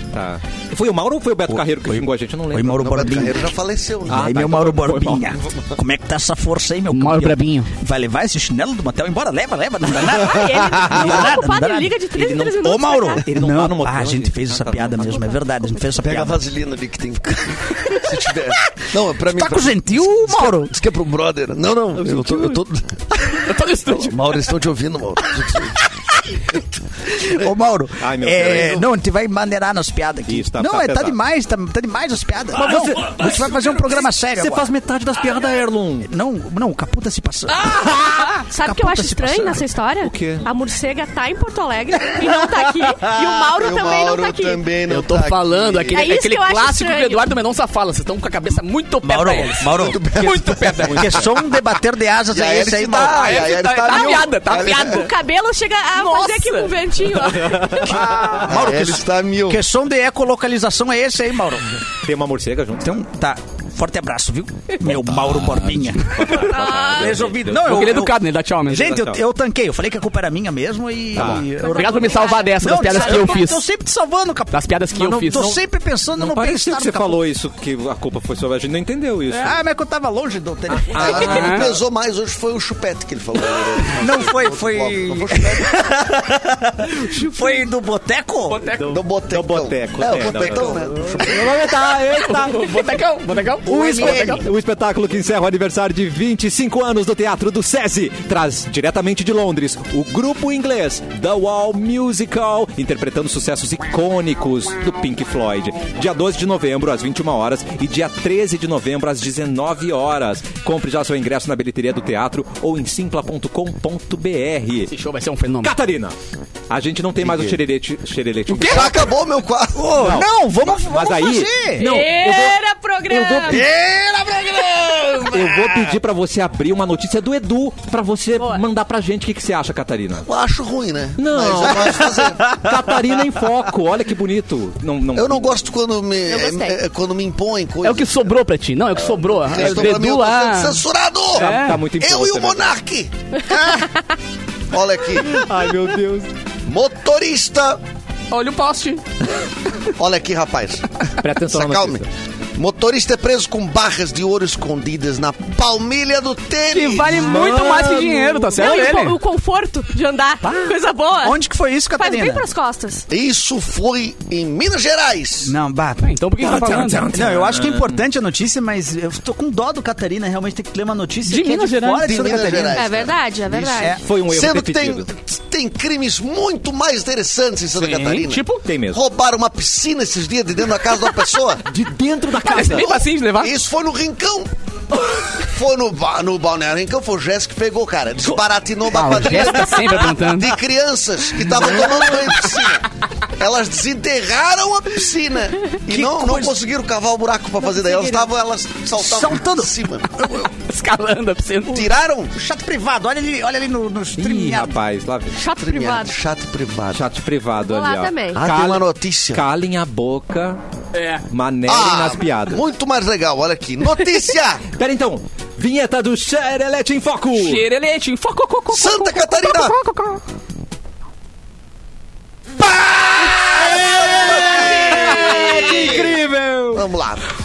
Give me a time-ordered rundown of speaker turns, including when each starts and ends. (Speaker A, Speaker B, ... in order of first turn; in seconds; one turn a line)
Speaker A: 0.1-3.3
Speaker B: 1.5-3.5
Speaker C: 2.8-4.3
Speaker A: 4.1-5.3
Speaker B: 4.1-12.0
Speaker D: 6.9-7.7
Speaker E: 10.2-13.2
Speaker A: 12.1-15.4
Speaker B: 12.6-16.4
Speaker C: 16.0-27.5
Speaker B: 19.3-20.7
Speaker A: 22.0-22.6
Speaker D: 23.4-24.2
Speaker B: 27.1-34.7
Speaker A: 28.0-28.9
Speaker A: 30.3-31.2
Speaker A: 32.6-36.1
Speaker B: 36.0-39.6
Speaker A: 37.7-38.4
Speaker E: 38.3-44.6
Speaker A: 40.0-40.5
Speaker C: 43.6-46.1
Speaker D: 44.9-51.3
Speaker E: 45.9-47.3
Speaker B: 49.0-50.3
Speaker C: 49.7-51.3
Speaker B: 50.8-53.5
Speaker C: 52.3-55.0
Speaker D: 53.1-55.1
Speaker E: 53.9-58.1
Speaker D: 55.9-56.8
Speaker A: 57.0-58.5
Speaker B: 57.8-61.7
Speaker C: 58.4-59.6
Speaker A: 62.0-63.0
Speaker B: 62.8-77.2
Speaker A: 66.1-68.1
Speaker E: 66.2-67.3
Speaker D: 67.5-69.0
Speaker A: 68.7-69.2
Speaker A: 71.1-71.5
Speaker E: 71.5-73.5
Speaker D: 71.6-73.6
Speaker D: 74.5-75.5
Speaker A: 75.0-75.6
Speaker A: 76.2-79.6
Speaker B: 79.3-81.5
Speaker A: 80.7-81.7
Speaker C: 80.9-85.9
Speaker D: 81.2-81.7
Speaker B: 83.9-88.6
Speaker D: 88.5-89.0
Speaker A: 88.7-92.9
Speaker C: 88.9-91.5
Speaker D: 92.3-94.5
Speaker A: 93.6-114.9
Speaker B: 93.9-94.4
Speaker D: 114.9-115.7
Speaker A: 115.6-116.2
Speaker A: 116.7-119.1
Speaker C: 117.2-117.5
Speaker D: 118.5-118.9
Speaker C: 118.6-120.1
Speaker B: 119.7-121.9
Speaker A: 119.9-123.7
Speaker E: 121.8-123.7
Speaker B: 123.4-126.0
Speaker A: 125.3-130.2
Speaker E: 128.4-128.6
Speaker C: 130.2-132.6
Speaker A: 131.2-135.5
Speaker B: 131.6-132.9
Speaker C: 135.1-138.2
Speaker E: 136.3-136.8
Speaker D: 137.8-140.8
Speaker C: 139.3-143.1
Speaker A: 139.6-139.9
Speaker A: 141.3-142.7
Speaker D: 141.3-141.8
Speaker E: 143.5-143.9
Speaker C: 144.7-145.4
Speaker A: 145.2-146.3
Speaker C: 146.7-147.8
Speaker D: 148.3-149.0
Speaker C: 149.9-152.0
Speaker A: 151.2-152.1
Speaker C: 152.6-157.4
Speaker D: 156.7-159.2
Speaker A: 157.0-158.7
Speaker E: 158.5-161.4
Speaker B: 160.4-162.4
Speaker E: 162.0-163.0
Speaker C: 163.1-165.5
Speaker B: 165.4-166.1
Speaker D: 166.0-167.1
Speaker A: 166.4-168.0
Speaker B: 167.1-172.9
Speaker D: 171.2-172.3
Speaker C: 172.0-173.1
Speaker E: 172.7-174.0
Speaker B: 173.6-174.0
Speaker A: 173.8-175.1
Speaker C: 174.2-181.6
Speaker D: 177.8-178.6
Speaker A: 178.6-179.0
Speaker A: 181.6-182.9
Speaker D: 182.4-183.5
Speaker C: 183.4-184.5
Speaker C: 185.3-200.5
Speaker D: 188.9-190.5
Speaker B: 195.9-196.5
Speaker B: 198.9-199.7
Speaker D: 200.2-201.9
Speaker C: 201.7-202.3
Speaker B: 202.3-204.8
Speaker A: 204.2-205.4
Speaker E: 205.3-206.2
Speaker C: 205.6-207.0
Speaker A: 206.9-210.6
Speaker E: 207.6-208.4
Speaker C: 208.3-209.4
Speaker D: 210.9-211.2
Speaker A: 211.3-212.6
Speaker C: 211.7-214.6
Speaker A: 214.7-217.6
Speaker D: 217.3-220.2
Speaker C: 218.7-219.8
Speaker A: 222.6-226.8
Speaker C: 223.7-226.2
Speaker C: 226.7-227.2